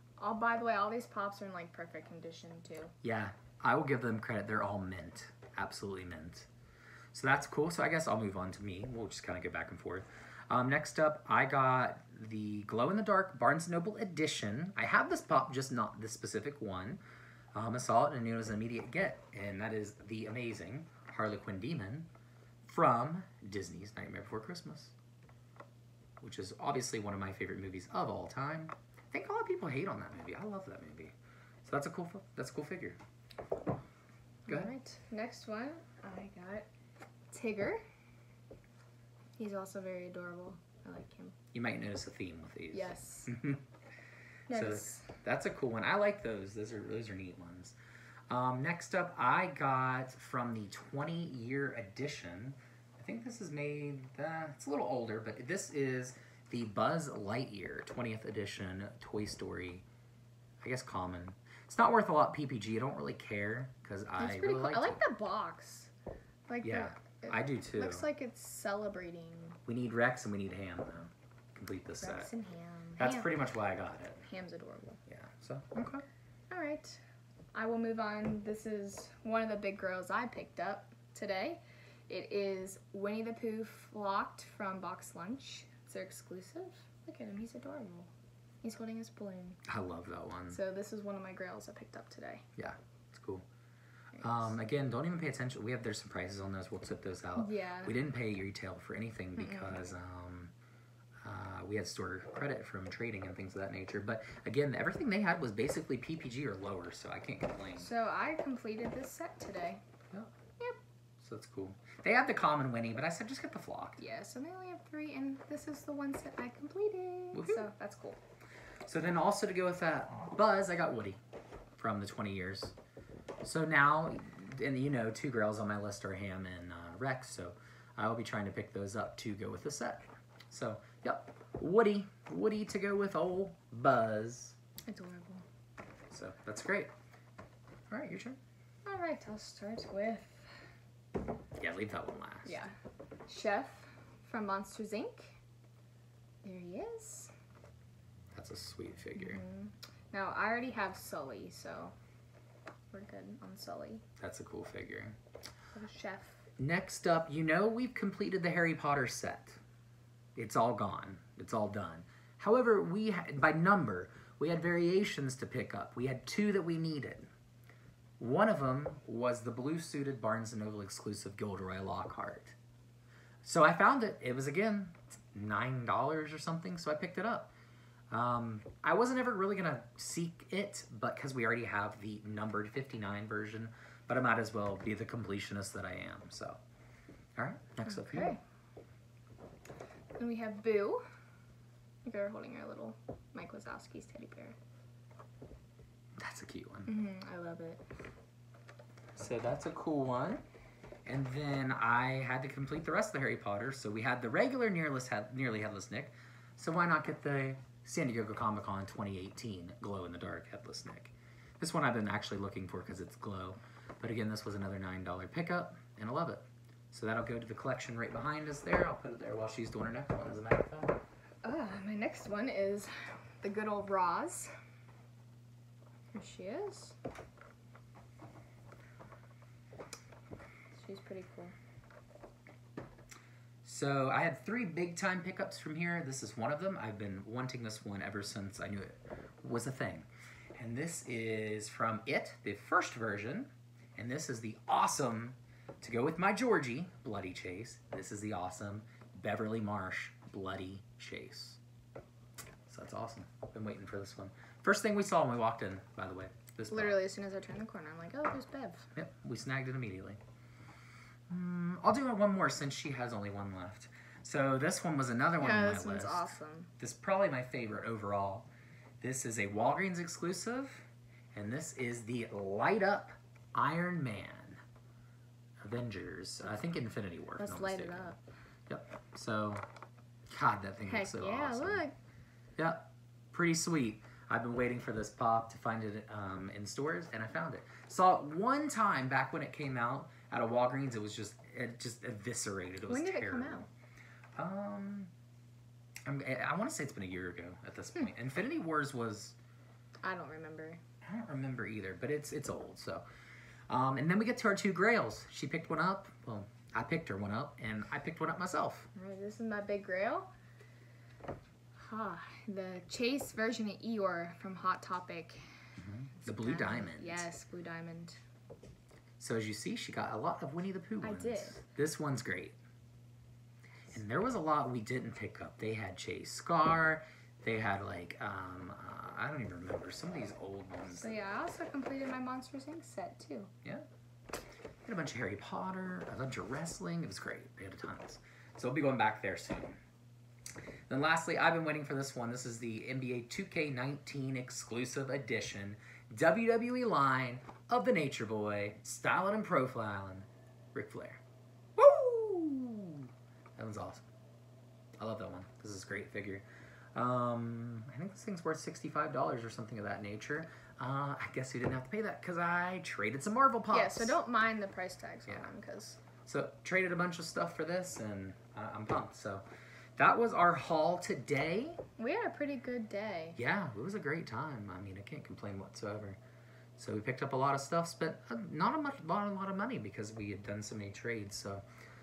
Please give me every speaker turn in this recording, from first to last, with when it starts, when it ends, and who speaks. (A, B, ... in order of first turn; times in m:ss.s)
0:00.2-0:03.0 A
0:03.0-0:06.5 B
0:07.1-0:17.0 B
0:17.5-0:22.1 B
0:22.6-0:24.9 B
0:26.2-0:31.1 B
0:31.6-0:33.0 B
0:34.5-0:36.6 A
0:37.3-0:37.8 A
0:39.4-0:41.3 A
0:41.5-0:43.6 B
0:42.7-0:43.3 A
0:44.5-0:45.1 A
0:44.5-0:47.8 B
0:48.3-0:59.8 B
1:00.6-1:05.0 B
1:04.2-1:05.9 A
1:06.5-1:09.6 A
1:06.6-1:08.1 B
1:09.6-1:12.3 B
1:12.0-1:13.4 A
1:13.0-1:14.2 B
1:14.2-1:15.0 A
1:15.0-1:16.0 B
1:16.5-1:17.0 A
1:17.5-1:28.1 A
1:28.6-1:29.6 A
1:29.6-1:30.6 B
1:30.5-1:32.4 A
1:32.6-1:33.4 B
1:34.1-1:34.6 A
1:34.2-1:40.5 B
1:37.4-1:37.9 A
1:39.4-1:39.9 A
1:41.2-1:47.9 B
1:47.8-1:49.8 A
1:51.2-1:54.0 B
1:54.0-1:58.2 A
1:57.3-1:57.7 B
1:58.8-2:01.2 B
2:01.8-2:02.7 B
2:03.4-2:14.6 B
2:14.9-2:15.4 A
2:16.1-2:16.9 B
2:17.9-2:18.4 B
2:18.8-2:20.5 A
2:21.6-2:22.6 B
2:22.4-2:22.7 A
2:23.3-2:25.4 A
2:26.4-2:27.3 A
2:28.3-2:29.4 B
2:29.2-2:31.9 A
2:32.9-2:34.0 A
2:34.2-2:35.2 B
2:35.7-2:36.4 A
2:36.6-2:39.6 B
2:40.4-2:47.3 B
2:48.2-2:52.5 B
2:53.4-2:57.5 B
2:58.1-3:06.6 B
3:07.4-3:08.4 B
3:07.8-3:08.4 A
3:10.2-3:11.0 A
3:12.0-3:14.6 A
3:16.2-3:16.9 B
3:16.8-3:17.8 A
3:19.2-3:20.4 B
3:21.0-3:41.0 B
3:41.4-3:42.9 A
3:43.4-3:44.5 A
3:46.1-3:47.0 A
3:50.7-3:51.5 A
3:53.6-4:11.6 B
4:12.7-4:17.0 B
4:16.7-4:18.9 A
4:19.0-4:20.2 B
4:21.3-4:28.5 B
4:25.4-4:26.7 A
4:29.0-4:34.6 B
4:35.6-4:38.2 B
4:37.4-4:38.2 A
4:38.7-4:39.6 B
4:40.3-4:41.8 B
4:40.8-4:41.9 A
4:42.6-4:53.7 B
4:52.8-4:53.7 A
4:54.3-4:55.1 B
4:56.0-4:59.4 B
5:00.0-5:00.8 A
5:01.0-5:03.0 B
5:03.7-5:08.9 B
5:08.9-5:10.3 A
5:11.8-5:15.4 A
5:15.8-5:17.3 B
5:16.2-5:18.2 A
5:19.2-5:22.6 B
5:21.0-5:21.6 A
5:23.9-5:31.2 B
5:30.9-5:33.5 A
5:34.8-5:39.8 B
5:40.9-5:51.2 B
5:51.8-5:54.0 B
5:55.0-6:04.2 B
6:03.7-6:06.0 A
6:06.2-6:09.4 B
6:10.0-6:11.8 B
6:12.0-6:13.4 A
6:13.4-6:16.2 B
6:16.8-6:21.6 B